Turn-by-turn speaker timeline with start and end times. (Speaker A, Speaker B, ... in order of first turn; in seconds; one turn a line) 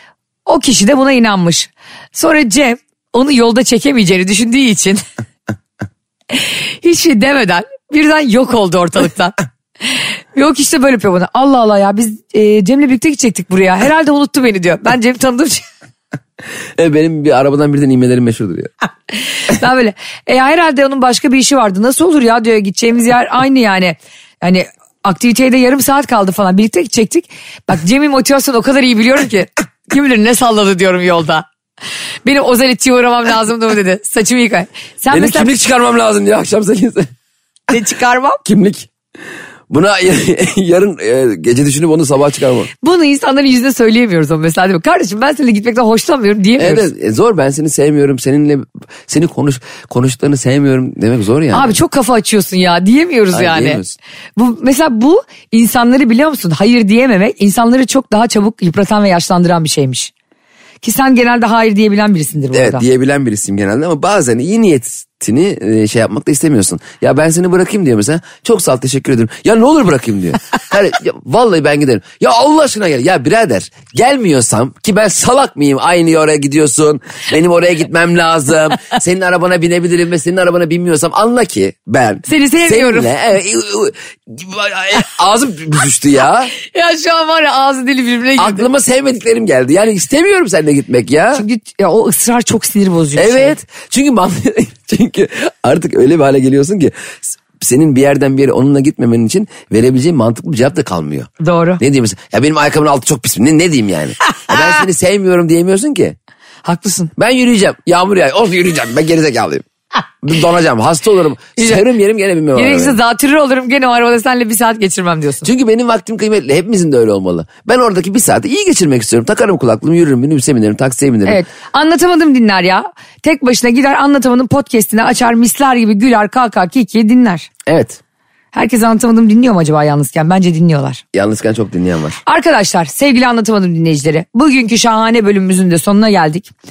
Speaker A: 0.5-5.0
Speaker A: 6.3-9.4
Speaker A: 9.9-15.7
Speaker B: 16.8-18.7
Speaker A: 19.5-31.5
Speaker A: 32.2-35.5
Speaker B: 35.1-37.1
Speaker A: 37.7-38.4
Speaker B: 38.5-38.9
Speaker B: 39.7-42.7
Speaker A: 42.8-46.9
Speaker B: 46.6-51.8
Speaker A: 51.5-53.8
Speaker B: 53.3-54.0
Speaker A: 54.4-60.1
Speaker A: 60.8-62.9
Speaker B: 62.5-86.5
Speaker A: 82.3-83.1
Speaker A: 86.6-88.7
Speaker B: 88.4-91.5
Speaker A: 91.3-93.5
Speaker B: 93.2-106.2
Speaker A: 101.4-101.8
Speaker A: 106.6-107.1
Speaker B: 107.2-109.7
Speaker B: 110.2-113.0
Speaker A: 111.6-111.8
Speaker A: 112.5-115.5
Speaker B: 115.5-121.4
Speaker A: 121.3-127.5
Speaker B: 127.7-128.0
Speaker A: 128.5-131.0
Speaker B: 131.1-132.2
Speaker A: 132.3-136.5